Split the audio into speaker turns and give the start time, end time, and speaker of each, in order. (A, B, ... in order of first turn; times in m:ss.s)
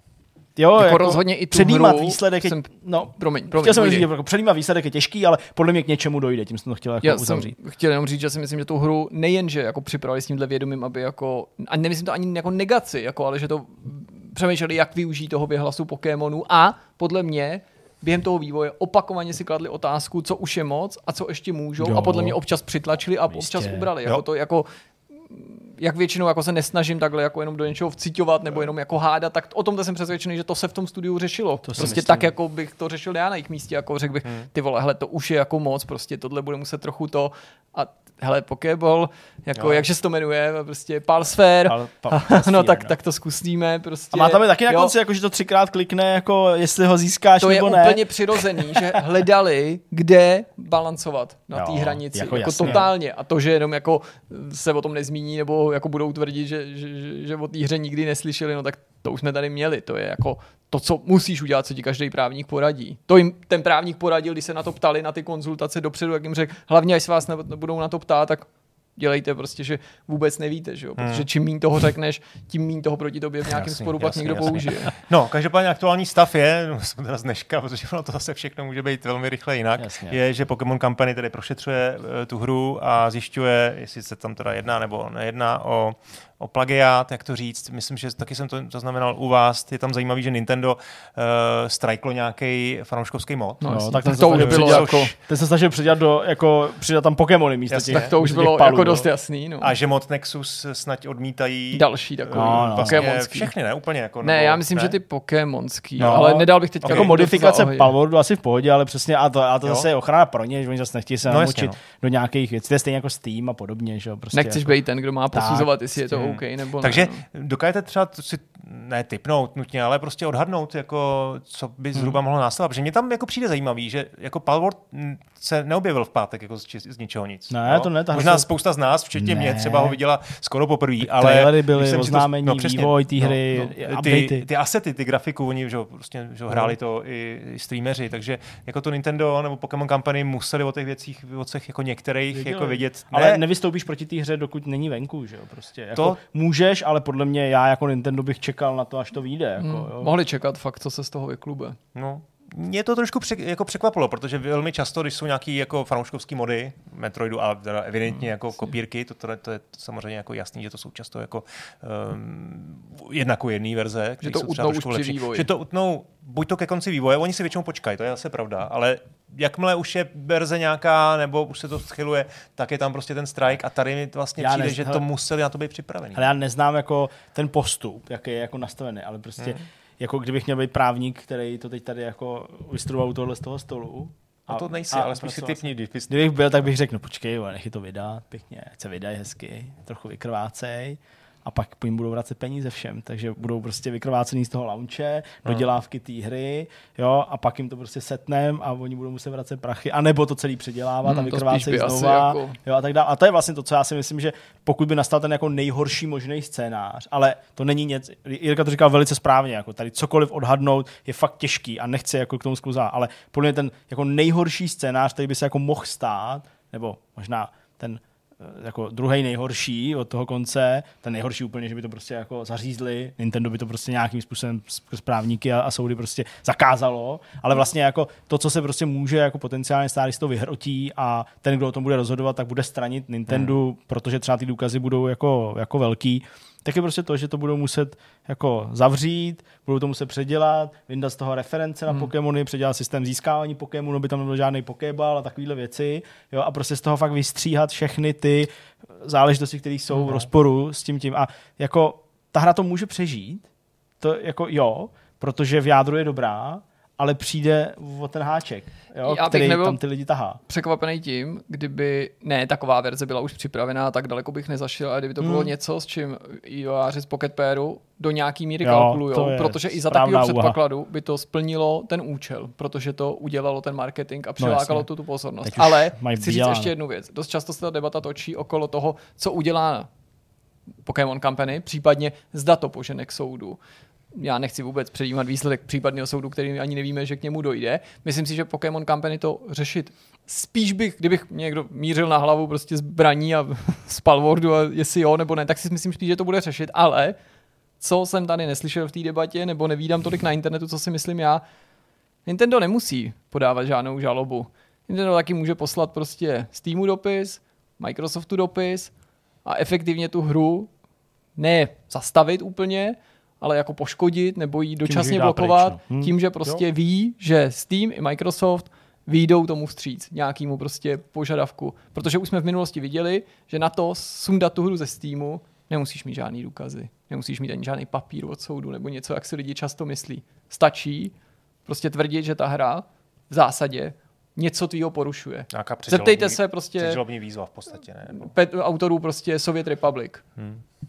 0:00.6-0:07.5 A
0:00.8-0:04.1 B
0:07.0-0:44.9 B
0:21.8-0:22.4 A
0:23.3-0:23.9 A
0:31.6-0:32.0 A
0:31.8-0:32.3 C
0:39.6-0:39.9 C
0:41.7-0:43.0 A
0:44.1-0:48.6 A
0:47.4-1:15.0 B
0:51.5-0:52.9 A
1:11.0-1:11.3 C
1:13.5-1:35.2 C
1:19.8-1:20.2 A
1:33.6-1:35.1 B
1:33.7-1:39.1 A
1:37.7-1:38.1 C
1:37.9-1:39.7 B
1:39.6-1:45.0 C
1:41.7-1:43.6 B
1:42.4-1:43.0 A
1:44.2-1:47.9 B
1:46.0-1:54.7 A
1:46.8-1:47.3 C
1:51.3-1:51.8 C
1:54.3-1:57.2 B
1:55.3-1:55.8 A
1:56.1-2:23.4 C
2:07.5-2:08.5 A
2:09.2-2:10.0 A
2:11.0-2:14.5 A
2:22.3-2:30.1 A
2:29.6-2:31.8 B
2:32.0-2:56.3 C
2:44.2-2:45.5 B
2:54.4-2:55.0 A
2:56.1-4:13.5 A
3:04.5-3:06.3 C
3:21.0-3:22.6 B
4:10.0-4:10.3 C
4:14.0-4:20.4 A
4:19.0-4:19.8 B
4:20.5-4:39.9 B
4:25.2-4:25.5 A
4:28.6-4:30.6 A
4:34.4-4:34.9 A
4:35.4-4:36.7 A
4:40.8-4:43.6 B
4:44.1-4:57.2 B
4:57.8-5:01.4 B
5:02.3-5:10.7 B
5:11.4-5:37.0 B
5:14.8-5:16.6 A
5:35.5-5:38.3 C
5:38.1-5:40.2 B
5:40.4-5:40.6 C